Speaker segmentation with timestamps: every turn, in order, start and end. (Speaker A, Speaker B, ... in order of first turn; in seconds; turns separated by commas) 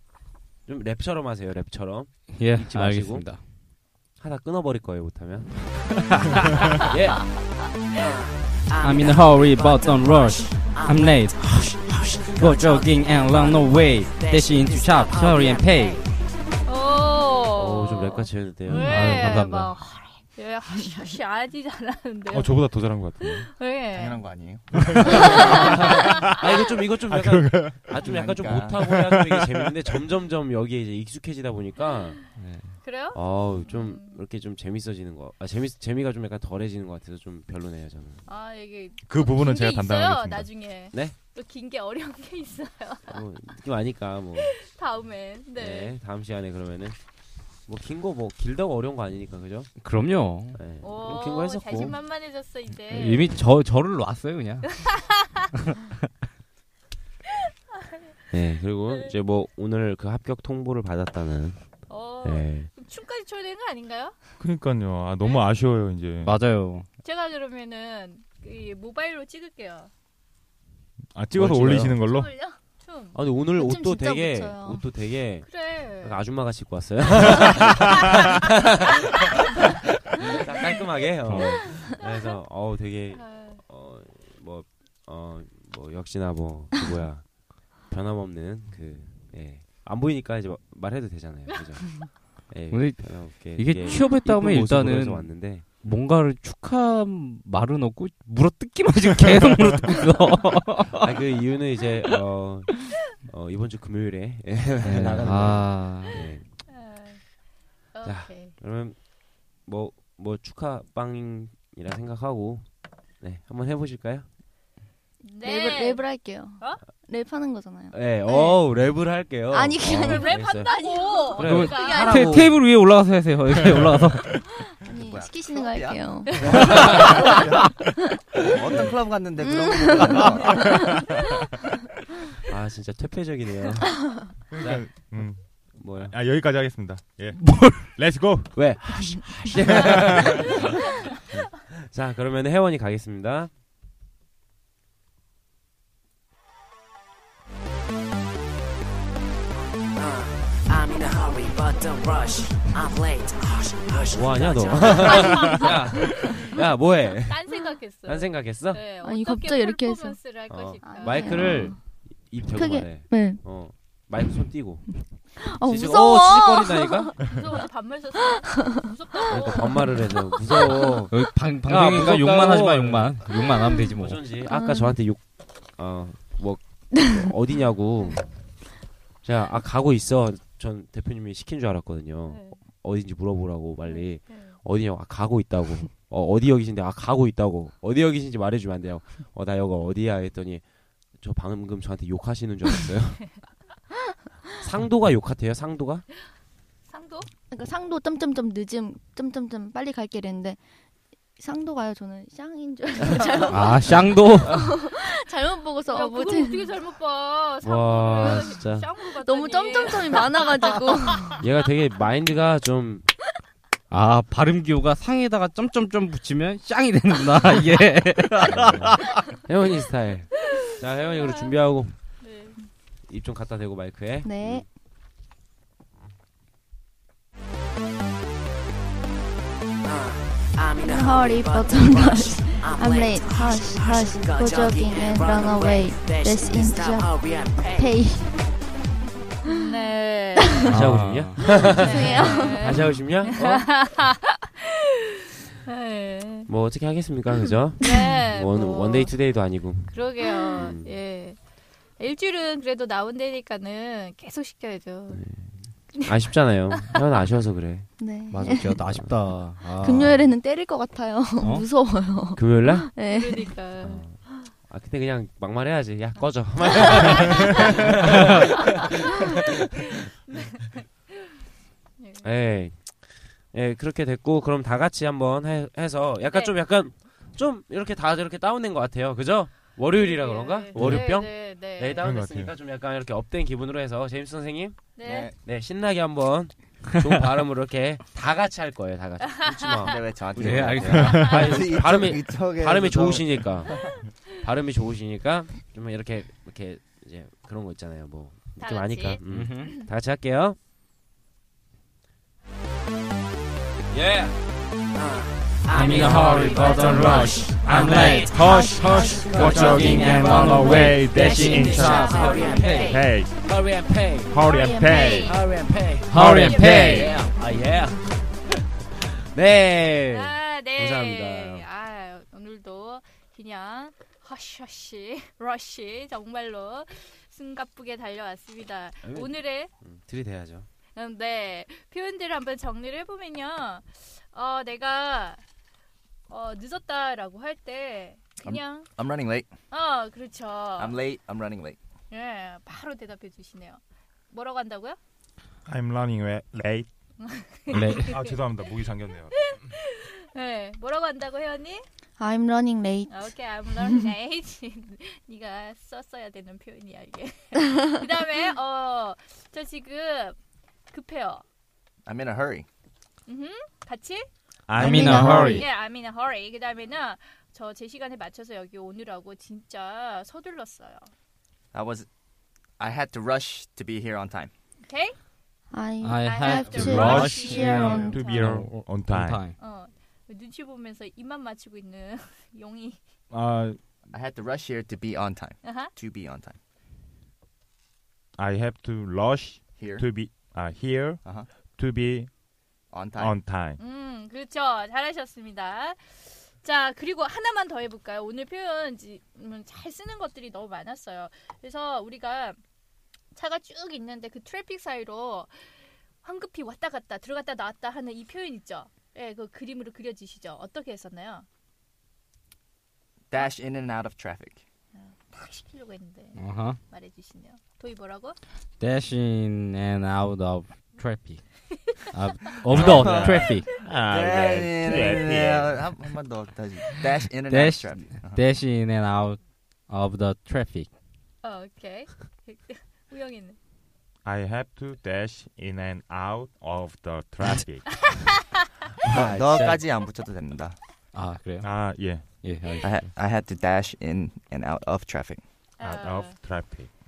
Speaker A: 0.7-3.4, Speaker B: 2.3-3.5, Speaker A: 4.2-7.3, Speaker B: 6.0-6.3, Speaker B: 8.8-16.0, Speaker C: 9.4-9.8, Speaker C: 10.6-11.2, Speaker C: 14.3-15.8, Speaker D: 16.7-24.2, Speaker A: 17.6-19.3, Speaker B: 18.7-19.8, Speaker E: 22.3-23.5, Speaker F: 23.9-25.4, Speaker E: 24.9-26.4, Speaker D: 25.1-26.3, Speaker A: 25.3-32.2, Speaker E: 27.1-28.1, Speaker F: 28.0-28.9, Speaker E: 28.8-29.7, Speaker B: 32.4-32.8, Speaker D: 32.8-34.2, Speaker A: 33.1-38.3, Speaker D: 38.3-43.2, Speaker E: 39.0-40.6, Speaker A: 43.1-44.6, Speaker D: 44.4-46.0, Speaker A: 45.6-47.0, Speaker A: 47.7-49.7, Speaker B: 49.8-50.6, Speaker A: 50.5-52.0, Speaker D: 50.8-53.4, Speaker B: 52.9-54.8, Speaker A: 58.3-62.7, Speaker D: 61.9-64.2, Speaker E: 64.4-66.3, Speaker B: 66.2-66.9, Speaker D: 67.0-69.9, Speaker E: 71.1-72.4, Speaker A: 71.4-72.0, Speaker B: 71.5-71.9, Speaker D: 72.1-73.2, Speaker A: 73.1-95.9, Speaker G: 73.6-74.8, Speaker D: 75.5-76.2, Speaker B: 81.3-81.7, Speaker D: 81.8-82.4, Speaker D: 83.1-83.6, Speaker B: 92.7-101.2, Speaker A: 101.0-106.6, Speaker B: 104.8-106.2, Speaker D: 106.7-107.3, Speaker D: 107.9-108.5, Speaker A: 108.0-114.3, Speaker D: 115.2-116.1, Speaker G: 115.4-118.5, Speaker A: 117.9-122.6, Speaker G: 119.5-121.1, Speaker D: 119.9-122.3, Speaker B: 121.4-124.4, Speaker G: 121.8-122.2, Speaker G: 124.7-127.4, Speaker F: 124.9-127.5, Speaker A: 126.5-127.2, Speaker F: 128.4-130.7, Speaker G: 129.4-130.7, Speaker A: 132.5-136.2, Speaker E: 134.5-138.8, Speaker B: 137.4-138.0, Speaker A: 138.5-143.5, Speaker E: 139.6-140.6, Speaker C: 150.0-155.4, Speaker A: 154.1-158.8, Speaker D: 155.0-156.6, Speaker D: 157.3-161.7, Speaker G: 159.0-160.2, Speaker A: 160.5-167.2, Speaker G: 160.8-163.5, Speaker G: 165.0-167.1, Speaker D: 167.2-170.1, Speaker A: 169.3-178.3, Speaker B: 171.1-174.3, Speaker G: 174.4-175.0, Speaker A: 179.2-193.5, Speaker D: 182.3-182.6, Speaker D: 183.8-184.6, Speaker A: 194.6-196.1, Speaker D: 196.9-197.3, Speaker G: 197.5-200.6, Speaker G: 201.4-206.7, Speaker B: 203.5-204.7, Speaker D: 205.9-210.4, Speaker A: 207.6-208.9, Speaker G: 208.2-208.5, Speaker G: 209.2-211.4, Speaker A: 211.4-213.1, Speaker B: 213.9-219.2, Speaker A: 218.4-222.0, Speaker D: 221.0-221.5, Speaker D: 222.2-222.6, Speaker A: 223.1-224.7, Speaker G: 224.2-224.7, Speaker G: 230.8-238.4, Speaker C: 237.3-237.5, Speaker D: 239.5-240.7, Speaker B: 240.7-241.6, Speaker A: 240.7-243.9, Speaker G: 241.6-242.8, Speaker D: 241.6-244.5, Speaker D: 245.7-246.5, Speaker A: 246.5-251.0, Speaker D: 247.8-249.3, Speaker D: 249.9-251.4, Speaker D: 252.0-255.2, Speaker A: 255.1-257.9, Speaker G: 258.0-258.9, Speaker B: 258.3-260.2, Speaker A: 258.4-260.2, Speaker G: 259.8-263.6, Speaker B: 261.4-261.7, Speaker A: 262.4-262.9, Speaker D: 263.1-264.0, Speaker A: 263.8-269.1, Speaker D: 267.3-267.6, Speaker D: 270.3-270.8, Speaker D: 272.0-272.3, Speaker A: 272.2-300.6, Speaker D: 276.3-276.6, Speaker D: 279.9-282.1, Speaker B: 280.8-281.0, Speaker E: 282.0-282.5, Speaker D: 285.0-285.3, Speaker F: 285.0-285.4, Speaker D: 289.7-290.0, Speaker F: 289.9-293.7, Speaker B: 290.4-291.6, Speaker E: 290.9-291.3, Speaker D: 291.1-291.4, Speaker D: 298.6-299.2, Speaker B: 299.3-299.8, Speaker A: 303.9-304.3, Speaker C: 304.9-308.0, Speaker B: 305.7-308.6, Speaker E: 306.0-313.3, Speaker A: 307.9-310.1, Speaker G: 308.3-309.7, Speaker B: 309.3-312.9, Speaker A: 311.3-314.4, Speaker C: 311.5-313.0, Speaker D: 312.0-312.9, Speaker G: 312.2-312.5, Speaker E: 314.3-315.4, Speaker G: 314.4-315.2, Speaker D: 314.5-315.4, Speaker A: 315.3-321.7, Speaker B: 316.1-317.1, Speaker E: 316.1-317.1, Speaker D: 316.2-317.1, Speaker D: 320.1-329.7, Speaker A: 329.0-330.7, Speaker D: 331.0-335.4, Speaker D: 336.3-338.9, Speaker F: 338.4-339.5, Speaker D: 339.7-341.0, Speaker F: 340.8-341.8, Speaker D: 342.1-343.8, Speaker D: 344.3-345.0, Speaker E: 345.7-346.9, Speaker D: 347.2-348.4, Speaker E: 347.7-349.4, Speaker B: 347.7-348.2, Speaker D: 349.4-351.9, Speaker G: 352.2-354.0, Speaker D: 353.1-360.4, Speaker D: 360.9-361.4, Speaker F: 362.1-362.7, Speaker D: 363.3-364.3, Speaker E: 364.7-365.6, Speaker B: 364.8-365.6, Speaker G: 364.8-365.6, Speaker D: 365.5-371.1, Speaker F: 371.7-372.1, Speaker F: 372.8-374.5, Speaker D: 374.8-375.2, Speaker G: 375.7-378.2, Speaker B: 376.0-379.6, Speaker D: 376.2-378.7, Speaker E: 376.7-379.4, Speaker D: 379.6-383.0, Speaker E: 383.3-383.8, Speaker F: 384.1-386.6, Speaker D: 385.6-385.9, Speaker E: 388.4-392.3, Speaker F: 389.8-390.1, Speaker F: 391.2-391.5, Speaker F: 392.9-393.4, Speaker E: 393.2-393.8, Speaker D: 393.8-402.6, Speaker D: 403.4-405.7, Speaker D: 406.2-411.5, Speaker F: 413.3-414.6, Speaker D: 414.9-418.4, Speaker B: 416.4-416.8, Speaker B: 418.8-423.7, Speaker E: 422.6-425.8, Speaker F: 422.7-428.4, Speaker B: 427.5-430.9, Speaker D: 431.4-433.6, Speaker E: 434.2-438.2, Speaker F: 439.1-440.8, Speaker A: 439.1-439.8, Speaker B: 441.1-443.1, Speaker E: 441.6-442.5, Speaker F: 442.8-445.4, Speaker D: 445.8-446.4, Speaker E: 445.8-446.9